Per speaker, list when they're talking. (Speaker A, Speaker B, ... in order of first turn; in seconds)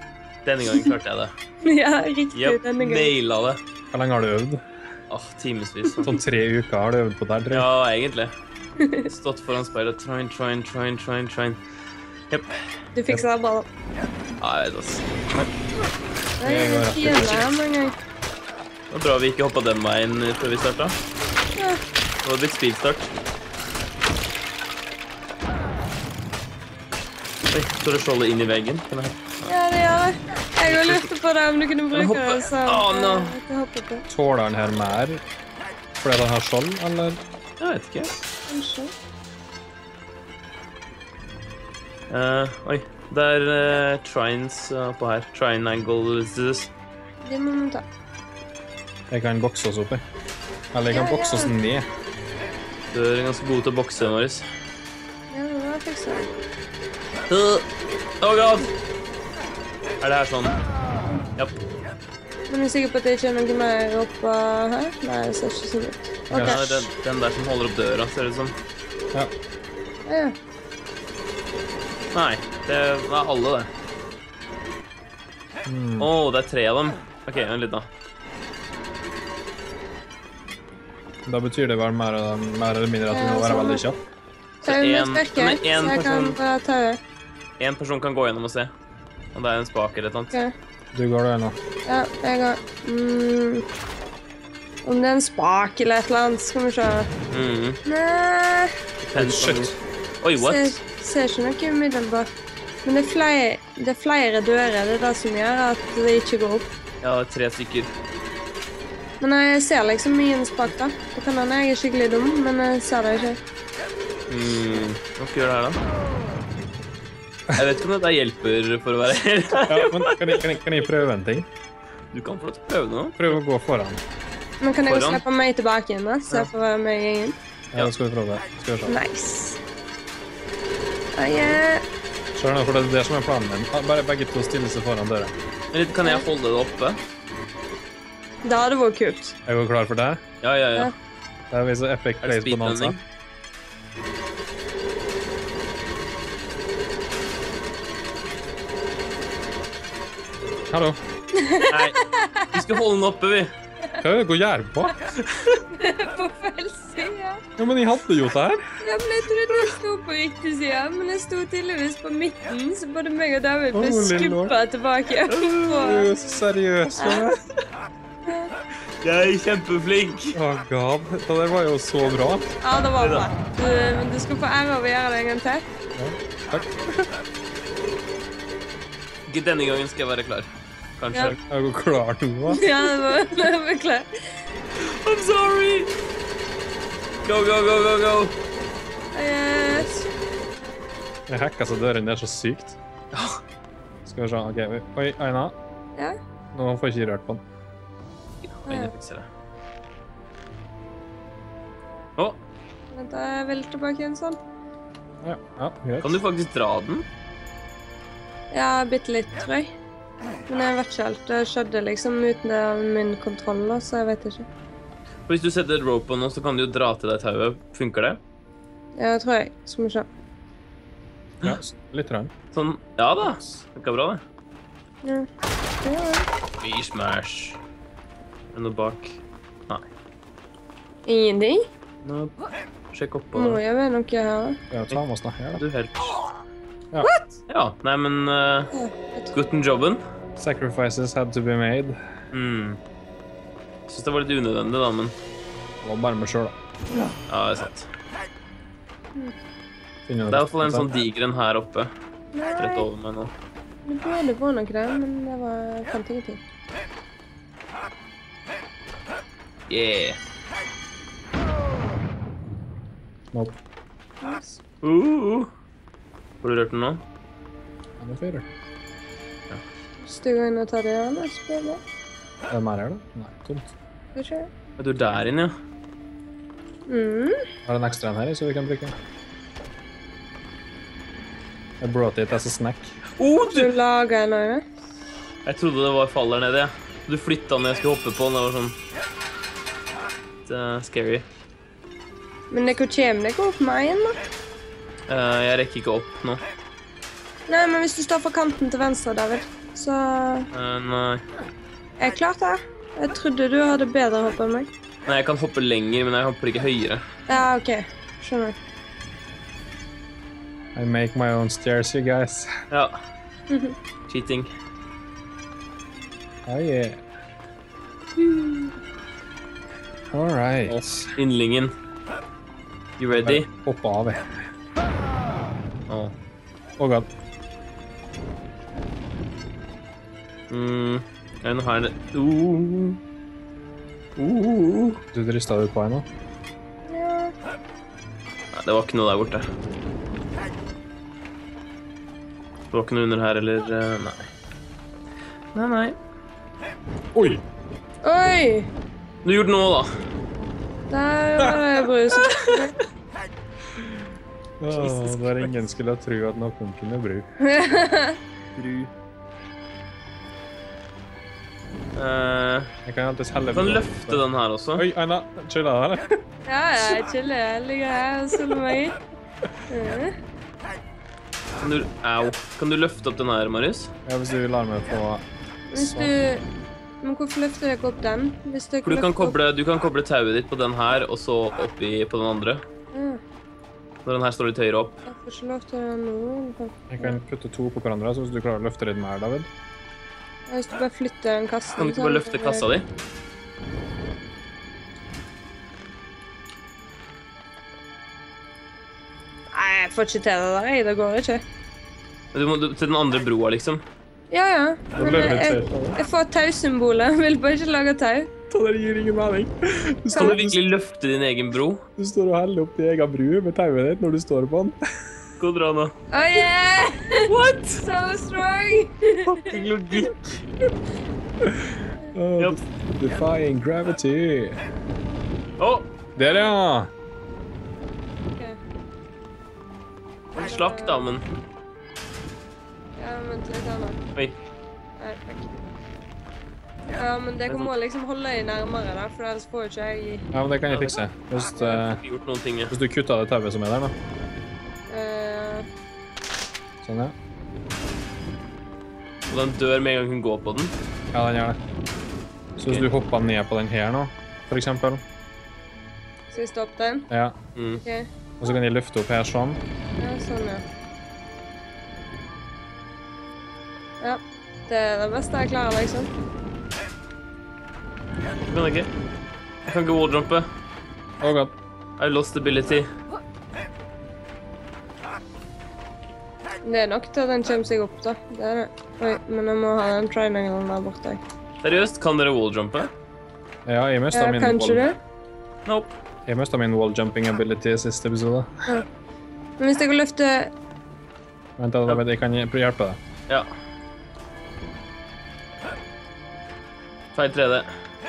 Speaker A: 0.4-1.3, 2.3-3.6, 5.1-6.2, 7.5-8.3, 9.0-11.6, 12.3-12.6, 14.4-15.2, 18.9-21.0, 22.2-23.1, 27.5-29.5, 30.6-31.1, 31.9-33.4, 37.6-38.1, 42.1-46.7, 52.9-54.5, 57.3-57.7, 58.2-58.7, 60.0-60.5, 66.3-68.5, 72.1-73.7, 76.0-77.9, 84.6-86.4, 87.6-88.7, 89.3-90.3, 97.3-97.8, 99.0-100.7, 107.0-107.9, 114.3-115.8, 117.5-120.5, 122.1-123.3, 124.8-125.2, 135.7-137.0, 140.4-140.9, 142.2-143.0, 151.7-152.0, 152.5-153.5, 155.2-155.6, 165.3-166.0, 169.0-170.4, 173.0-173.3, 179.3-181.3, 184.8-185.9, 187.2-188.3, 193.1-193.4, 198.4-199.3, 206.0-207.1, 215.3-218.2, 222.5-224.2, 226.6-227.6, 228.5-229.9, 232.0-232.3, 232.9-233.6, 235.5-236.2, 237.5-238.7, 239.3-240.0, 242.3-242.8, 243.9-245.1, 247.3-247.9, 250.3-251.9, 252.6-253.3, 259.7-260.2, 264.8-265.5, 266.4-267.0, 274.8-275.6, 283.1-283.7, 285.4-288.8, 290.4-291.2, 295.1-296.4, 300.5-301.2, 305.1-307.0, 312.7-313.0, 314.1-314.5, 320.7-321.7, 323.0-323.5, 325.9-326.1, 330.5-333.0, 334.1-335.0, 338.5-339.5, 342.7-344.3, 345.5-346.0, 349.2-350.0, 352.2-352.6, 354.7-355.6, 358.5-358.9, 361.9-362.7, 363.5-364.9, 371.6-373.9, 378.8-382.6, 384.0-385.0, 391.7-392.8, 402.3-403.8, 410.1-411.8, 415.4-415.9, 417.2-417.8, 419.3-420.4, 425.6-425.9, 430.3-431.2, 440.7-441.0, 441.6-442.8, 449.3-450.7, 457.6-457.8, 468.5-468.9, 469.6-470.5, 472.0-472.9, 481.6-482.9, 485.6-485.9, 497.1-497.7
Speaker B: 1.6-3.1, 8.8-9.1, 12.9-13.7, 16.4-17.9, 21.6-21.8, 29.4-34.0, 38.5-38.9, 47.2-47.8, 50.9-51.5, 55.3-56.3, 62.5-66.6, 70.1-70.3, 83.1-83.8, 84.6-87.0, 91.8-93.6, 94.8-97.1, 97.8-98.8, 100.4-102.3, 102.8-106.7, 109.2-113.4, 124.6-127.3, 128.9-129.6, 131.2-131.8, 135.9-136.2, 138.4-139.3, 151.3-152.5, 155.7-157.4, 158.8-166.2, 167.0-167.3, 168.2-168.5, 172.6-175.6, 182.5-184.3, 189.1-190.1, 202.9-204.4, 208.5-209.7, 210.5-214.4, 218.9-220.1, 225.8-226.3, 231.1-231.7, 233.3-234.6, 238.7-239.3, 252.3-252.9, 253.8-256.4, 264.2-264.6, 270.0-271.8, 274.1-274.5, 276.9-277.4, 283.5-284.6, 292.5-294.2, 297.5-300.5, 302.0-304.7, 307.3-308.5, 313.5-313.8, 318.2-318.5, 336.9-337.3, 348.0-348.7, 350.9-352.8, 357.4-358.2, 366.5-369.0, 369.7-370.1, 375.7-376.4, 377.0-379.4, 382.9-383.2, 385.1-387.1, 390.5-392.7, 399.5-401.4, 404.3-408.3, 410.1-410.4, 416.1-419.5, 426.2-426.5, 430.4-431.1, 433.0-434.0, 435.0-435.5, 436.9-440.2, 444.9-445.7, 456.3-457.1, 457.8-458.1, 460.0-460.6, 464.0-466.1, 476.6-481.2, 484.1-485.0, 489.6-490.5
Speaker C: 3.9-4.6, 6.0-7.7, 16.4-17.5, 34.1-35.2, 36.0-37.2, 49.1-50.0, 50.7-51.9, 66.3-66.9, 75.6-76.1, 81.2-84.0, 90.9-91.6, 99.2-99.7, 119.7-121.5, 123.2-124.0, 127.7-128.9, 132.3-135.3, 139.4-140.2, 141.5-142.9, 150.7-151.0, 154.0-154.9, 157.6-158.6, 163.7-164.5, 165.8-167.4, 170.3-172.6, 175.9-177.1, 181.2-182.6, 191.3-192.8, 194.0-195.6, 196.5-197.4, 205.2-206.2, 221.4-222.3, 223.2-223.6, 234.7-235.6, 240.4-242.0, 245.8-246.5, 250.1-250.9, 263.3-263.6, 268.0-268.5, 272.5-273.7, 277.6-279.0, 281.8-282.9, 310.7-312.5, 316.4-317.0, 320.1-321.1, 323.1-324.4, 326.8-327.1, 335.1-336.1, 347.1-347.4, 354.6-357.3, 362.8-364.2, 364.7-366.2, 374.1-375.2, 375.8-376.1, 386.9-389.5, 405.0-406.0, 408.5-410.6, 412.0-414.8, 421.4-424.6, 426.1-426.9, 440.3-442.0, 442.7-443.9, 446.8-447.1, 451.1-451.6, 452.6-455.0, 457.1-457.4, 458.4-459.6, 471.2-471.5, 483.6-484.8, 486.2-488.5, 491.6-493.0